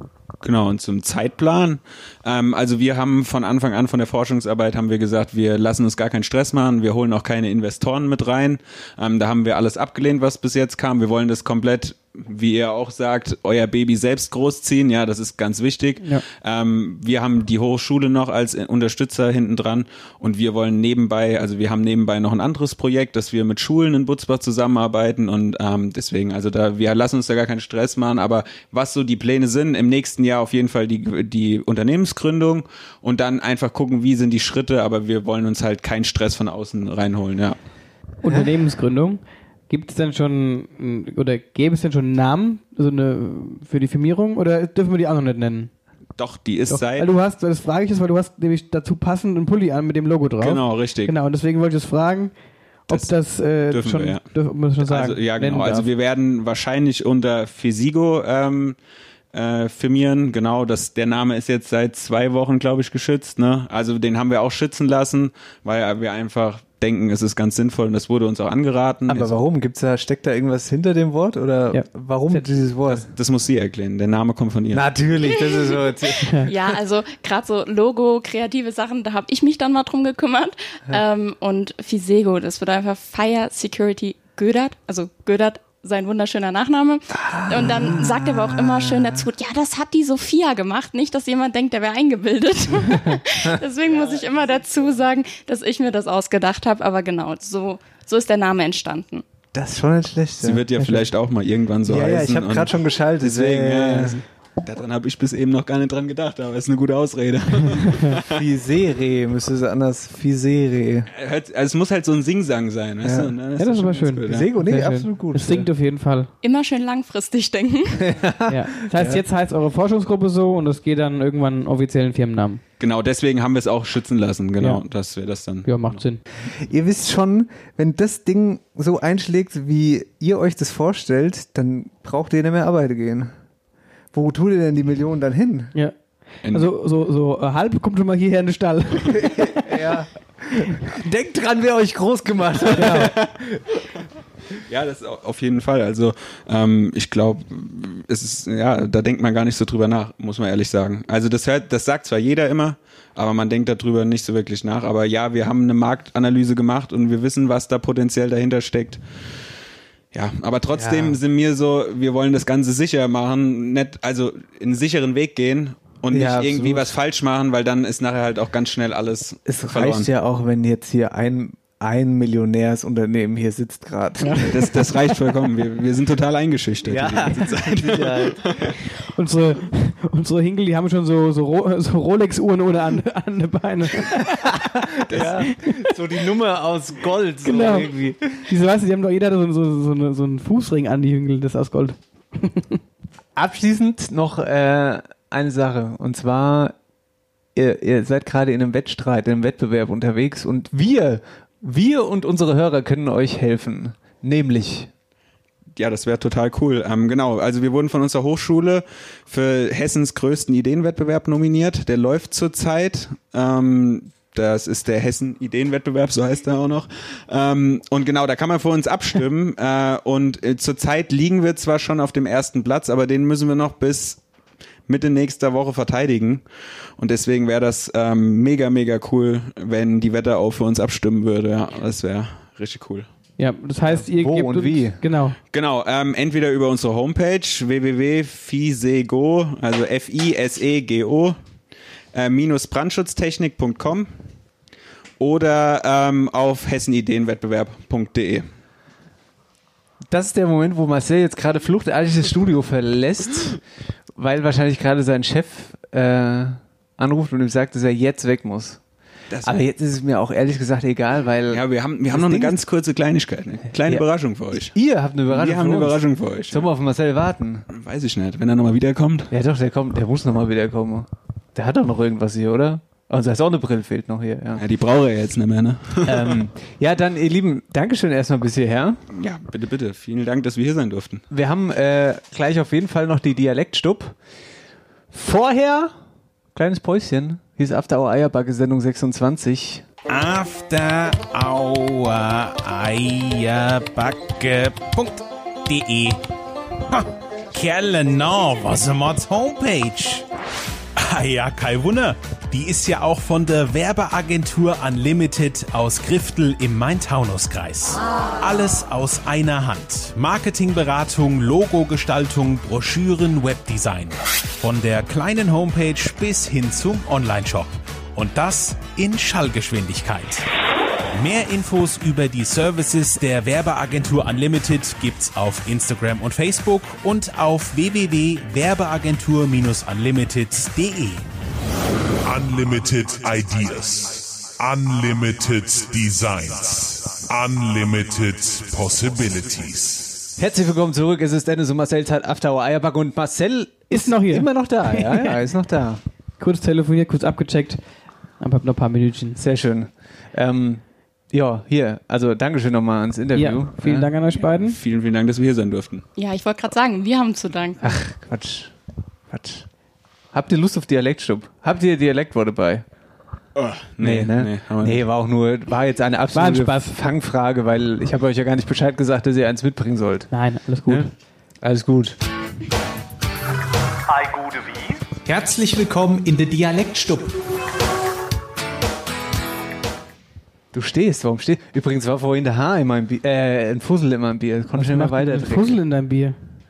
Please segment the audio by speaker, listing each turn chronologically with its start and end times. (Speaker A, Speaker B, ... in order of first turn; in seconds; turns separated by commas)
Speaker A: 0.4-37.6, Speaker B: 38.2-45.7, Speaker A: 46.2-47.1, Speaker B: 46.7-52.3, Speaker A: 50.4-51.1, Speaker B: 52.9-55.9, Speaker A: 52.9-54.3, Speaker A: 54.8-58.8, Speaker A: 59.3-69.3, Speaker C: 69.1-73.1, Speaker B: 71.7-72.5, Speaker A: 72.9-75.0, Speaker C: 74.7-76.7, Speaker D: 75.2-75.8, Speaker D: 76.4-99.2, Speaker C: 87.2-89.3, Speaker C: 99.5-100.7, Speaker A: 100.4-108.4, Speaker B: 100.8-101.1, Speaker C: 101.8-104.2, Speaker B: 107.8-108.2, Speaker C: 108.2-111.1, Speaker A: 111.1-114.5, Speaker C: 113.0-113.3, Speaker B: 113.6-116.3, Speaker C: 114.2-115.7, Speaker D: 116.4-118.1, Speaker C: 118.0-119.2, Speaker B: 118.5-122.6, Speaker A: 122.8-126.0, Speaker B: 125.7-126.2, Speaker C: 126.5-133.3, Speaker C: 134.1-135.7, Speaker A: 136.4-136.7, Speaker B: 136.5-139.7, Speaker C: 139.1-143.6, Speaker B: 142.8-143.1, Speaker A: 143.0-143.3, Speaker A: 144.7-159.0, Speaker A: 160.1-170.1, Speaker C: 160.7-161.2, Speaker C: 166.1-166.9, Speaker C: 169.5-174.9, Speaker B: 174.2-174.5, Speaker A: 174.5-178.8, Speaker C: 176.8-178.4, Speaker B: 179.0-184.5, Speaker C: 184.2-188.5, Speaker A: 185.1-185.5, Speaker B: 185.1-185.9, Speaker B: 187.4-187.9, Speaker B: 188.4-192.8, Speaker C: 193.4-196.7, Speaker C: 197.6-204.9, Speaker A: 205.8-224.2, Speaker A: 224.9-226.4, Speaker A: 227.0-233.1, Speaker B: 233.4-235.4, Speaker C: 233.9-235.0, Speaker A: 235.5-241.4, Speaker A: 242.1-244.1, Speaker A: 245.2-248.5, Speaker C: 250.1-253.6, Speaker C: 254.2-258.8, Speaker A: 259.3-259.6, Speaker C: 259.4-262.6, Speaker A: 261.5-264.7, Speaker C: 263.8-267.7, Speaker A: 265.3-266.7, Speaker A: 267.7-269.3, Speaker C: 269.3-274.6, Speaker A: 274.6-276.4, Speaker C: 276.1-279.0, Speaker A: 279.1-281.2, Speaker C: 281.3-284.2, Speaker C: 285.1-285.9, Speaker C: 286.6-289.9, Speaker E: 290.1-296.2, Speaker E: 296.9-300.2, Speaker E: 301.0-320.4, Speaker E: 321.1-331.2, Speaker F: 332.2-340.3, Speaker C: 340.4-346.0, Speaker B: 343.9-345.4, Speaker B: 346.4-347.8, Speaker B: 348.4-349.4, Speaker C: 349.4-354.1, Speaker B: 353.4-354.8, Speaker A: 353.9-356.1, Speaker D: 356.2-357.8, Speaker C: 357.8-358.7, Speaker C: 359.3-359.7, Speaker C: 360.3-362.9, Speaker A: 363.6-365.0, Speaker C: 364.0-370.3, Speaker B: 366.3-367.0, Speaker B: 370.3-371.1, Speaker C: 371.6-372.2, Speaker C: 374.1-377.3, Speaker C: 380.7-385.8, Speaker B: 384.7-386.4